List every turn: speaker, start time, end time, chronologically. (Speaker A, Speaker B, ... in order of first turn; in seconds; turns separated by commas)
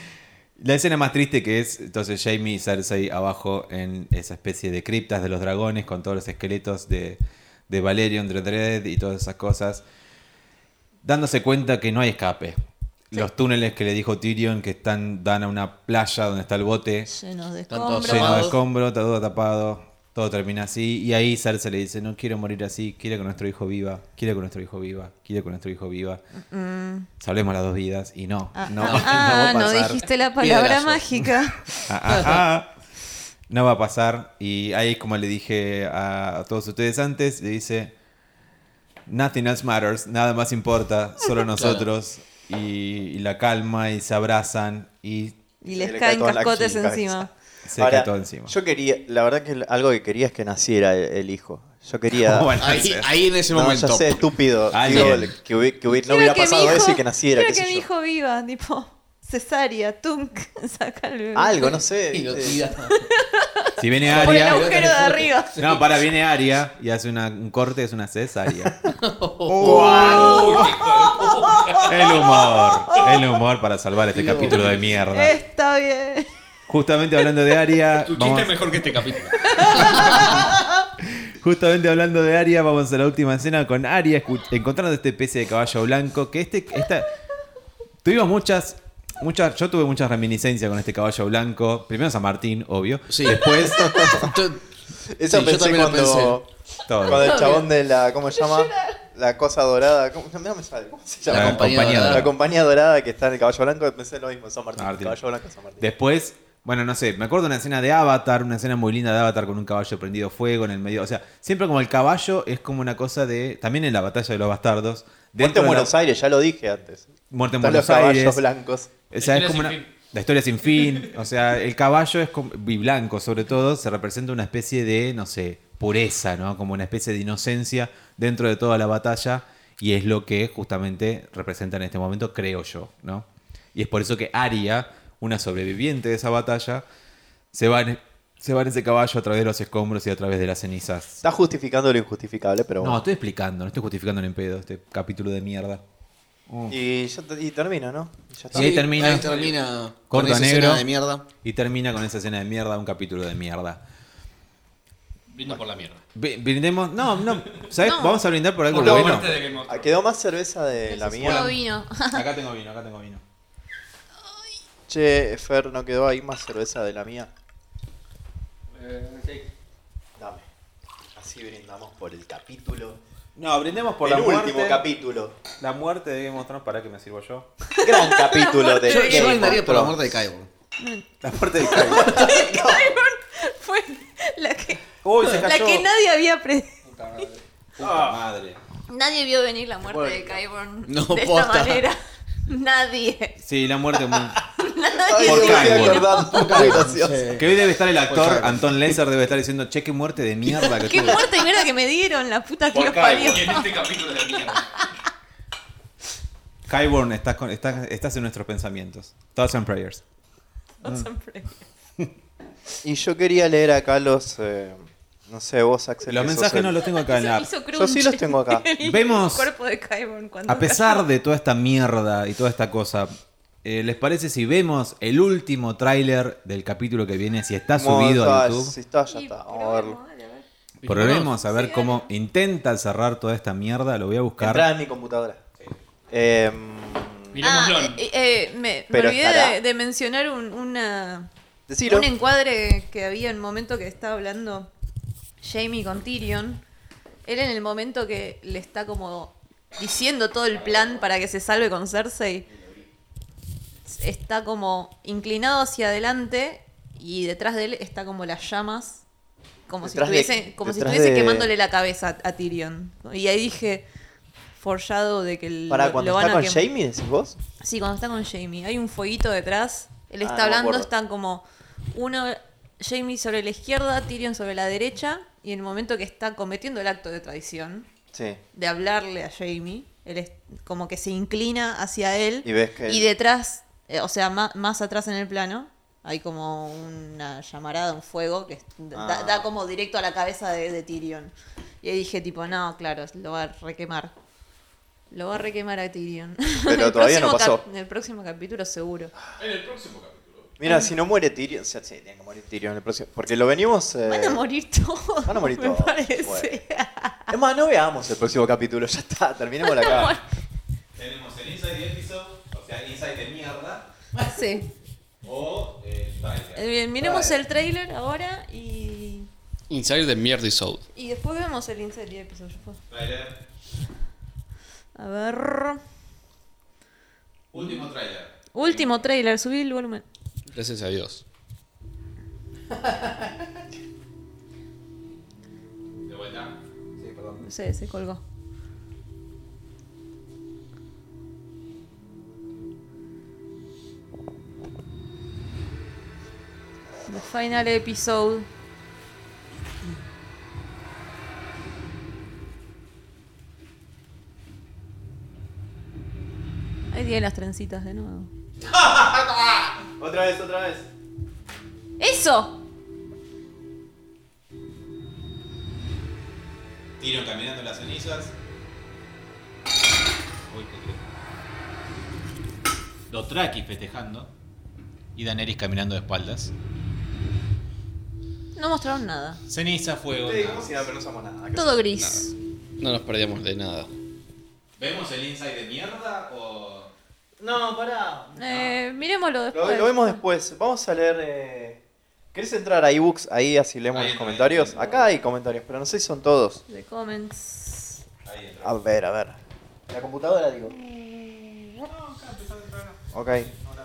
Speaker A: 0.6-9.8, Speaker A: 11.0-12.6, Speaker A: 13.1-17.1, Speaker B: 17.1-18.5, Speaker C: 17.7-18.6, Speaker A: 18.0-26.2, Speaker B: 26.4-27.1, Speaker A: 27.2-30.0, Speaker B: 28.5-31.7, Speaker C: 28.9-29.4, Speaker C: 30.4-31.0, Speaker A: 31.9-32.7, Speaker C: 32.1-32.4, Speaker A: 33.5-37.9, Speaker A: 39.1-45.4, Speaker C: 41.5-41.9, Speaker B: 45.6-47.3, Speaker D: 45.7-52.5, Speaker A: 47.6-48.5, Speaker A: 52.1-53.1, Speaker C: 52.6-54.2, Speaker D: 53.5-57.9, Speaker A: 54.7-55.3, Speaker B: 56.0-61.8, Speaker D: 61.3-62.6, Speaker C: 62.1-63.0, Speaker B: 62.9-65.7, Speaker A: 63.8-64.6, Speaker C: 64.0-65.8, Speaker A: 65.6-68.8, Speaker C: 69.0-70.4, Speaker A: 69.5-70.8, Speaker D: 69.6-70.6, Speaker E: 69.7-72.0, Speaker B: 69.9-70.6, Speaker B: 71.8-73.2, Speaker A: 71.8-75.4, Speaker C: 74.1-74.8, Speaker B: 75.1-76.3, Speaker A: 76.7-78.7, Speaker E: 78.0-80.3, Speaker B: 79.4-80.5, Speaker A: 79.8-80.4, Speaker A: 81.0-87.1, Speaker A: 88.0-94.2, Speaker C: 93.1-93.5, Speaker D: 93.5-94.3, Speaker C: 94.0-94.6, Speaker D: 95.1-96.5, Speaker C: 95.3-96.4, Speaker A: 96.9-97.5, Speaker D: 97.0-105.8, Speaker B: 97.0-97.7, Speaker B: 98.3-99.0, Speaker C: 101.3-102.3, Speaker A: 101.3-102.3, Speaker A: 104.8-105.2, Speaker A: 105.8-115.9, Speaker D: 115.4-117.0, Speaker A: 117.3-118.4, Speaker D: 117.6-118.9, Speaker A: 119.1-136.8, Speaker E: 119.2-119.9, Speaker E: 120.8-121.1, Speaker A: 137.5-141.2, Speaker D: 141.2-143.0, Speaker A: 142.8-145.8, Speaker A: 146.5-146.8, Speaker D: 146.7-148.9, Speaker A: 148.5-149.3, Speaker C: 148.5-151.2, Speaker E: 149.0-149.6, Speaker A: 150.1-153.8, Speaker E: 155.3-156.0, Speaker A: 156.1-159.4, Speaker B: 157.8-158.2, Speaker E: 158.7-159.9, Speaker D: 158.7-161.5, Speaker B: 160.8-162.2, Speaker A: 161.2-161.6, Speaker A: 162.1-163.2, Speaker D: 164.9-167.3, Speaker E: 168.7-169.5, Speaker D: 170.2-170.4, Speaker D: 171.2-173.0, Speaker A: 173.3-174.8, Speaker D: 174.0-175.4, Speaker A: 175.6-177.5, Speaker B: 177.7-179.6, Speaker D: 177.8-180.0, Speaker C: 178.8-180.5, Speaker B: 180.8-181.1, Speaker A: 181.2-182.2, Speaker B: 181.6-187.2, Speaker D: 181.7-182.9, Speaker A: 185.0-185.9, Speaker E: 186.8-187.4, Speaker A: 187.8-188.6, Speaker D: 187.8-188.1, Speaker B: 188.9-193.4, Speaker D: 189.8-190.4, Speaker C: 190.8-191.8, Speaker A: 193.4-194.4, Speaker B: 194.6-196.7, Speaker D: 195.0-197.3, Speaker A: 195.2-196.2, Speaker C: 196.2-198.9, Speaker A: 197.3-201.3, Speaker B: 200.7-203.7, Speaker E: 202.7-204.8, Speaker A: 206.7-210.0, Speaker B: 210.8-211.5, Speaker D: 212.8-216.8, Speaker A: 216.1-217.5, Speaker B: 216.8-221.0, Speaker D: 217.7-218.7, Speaker A: 218.8-219.5, Speaker A: 220.4-223.1, Speaker A: 223.6-228.7, Speaker D: 227.7-230.0, Speaker B: 229.1-230.4, Speaker E: 230.8-231.3, Speaker A: 230.8-234.7, Speaker B: 231.4-232.0, Speaker D: 234.4-235.4, Speaker D: 236.1-237.4, Speaker E: 237.3-238.0, Speaker B: 237.4-241.3, Speaker D: 238.9-239.6, Speaker D: 241.7-242.1, Speaker B: 241.8-244.7, Speaker B: 245.4-246.6, Speaker B: 247.2-252.5, Speaker B: 253.8-259.0, Speaker B: 259.7-263.9, Speaker D: 259.8-261.5, Speaker B: 264.6-266.6, Speaker D: 265.7-267.4, Speaker B: 267.6-277.9, Speaker D: 270.2-270.9, Speaker D: 278.1-278.4, Speaker B: 278.5-294.1, Speaker D: 282.4-283.1, Speaker D: 288.9-289.5, Speaker B: 295.1-299.1, Speaker D: 296.6-297.6, Speaker A: 299.4-300.5, Speaker D: 300.6-304.4, Speaker B: 300.6-300.9, Speaker B: 304.1-307.3, Speaker D: 305.2-306.6, Speaker D: 307.3-310.1, Speaker B: 309.6-310.2, Speaker A: 310.9-313.9, Speaker B: 314.1-314.7, Speaker A: 315.2-316.6, Speaker B: 316.5-319.3, Speaker E: 319.7-320.9, Speaker B: 320.9-322.8, Speaker A: 322.9-323.4, Speaker B: 324.9-325.8, Speaker A: 327.5-329.0, Speaker B: 328.5-330.0, Speaker E: 330.5-331.2, Speaker A: 336.1-337.4, Speaker B: 337.4-338.2, Speaker B: 347.1-348.5, Speaker B: 356.9-358.3, Speaker A: 358.7-359.7, Speaker D: 360.0-360.8, Speaker B: 362.0-362.6, Speaker A: 367.0-368.3, Speaker A: 370.5-371.0, Speaker A: 373.1-374.3, Speaker A: 375.1-376.5, Speaker B: 378.5-379.4, Speaker A: 379.5-380.7, Speaker D: 380.2-381.8, Speaker B: 381.5-382.3, Speaker E: 381.9-382.3, Speaker E: 382.8-383.9, Speaker A: 384.8-386.9, Speaker D: 387.4-388.7, Speaker B: 388.4-390.2, Speaker D: 389.5-391.8, Speaker D: 392.3-396.6, Speaker A: 393.9-395.0, Speaker B: 396.7-398.0, Speaker A: 398.2-398.7, Speaker D: 398.6-399.4, Speaker D: 399.9-400.8, Speaker B: 400.7-401.8, Speaker A: 401.9-403.0, Speaker D: 403.1-403.6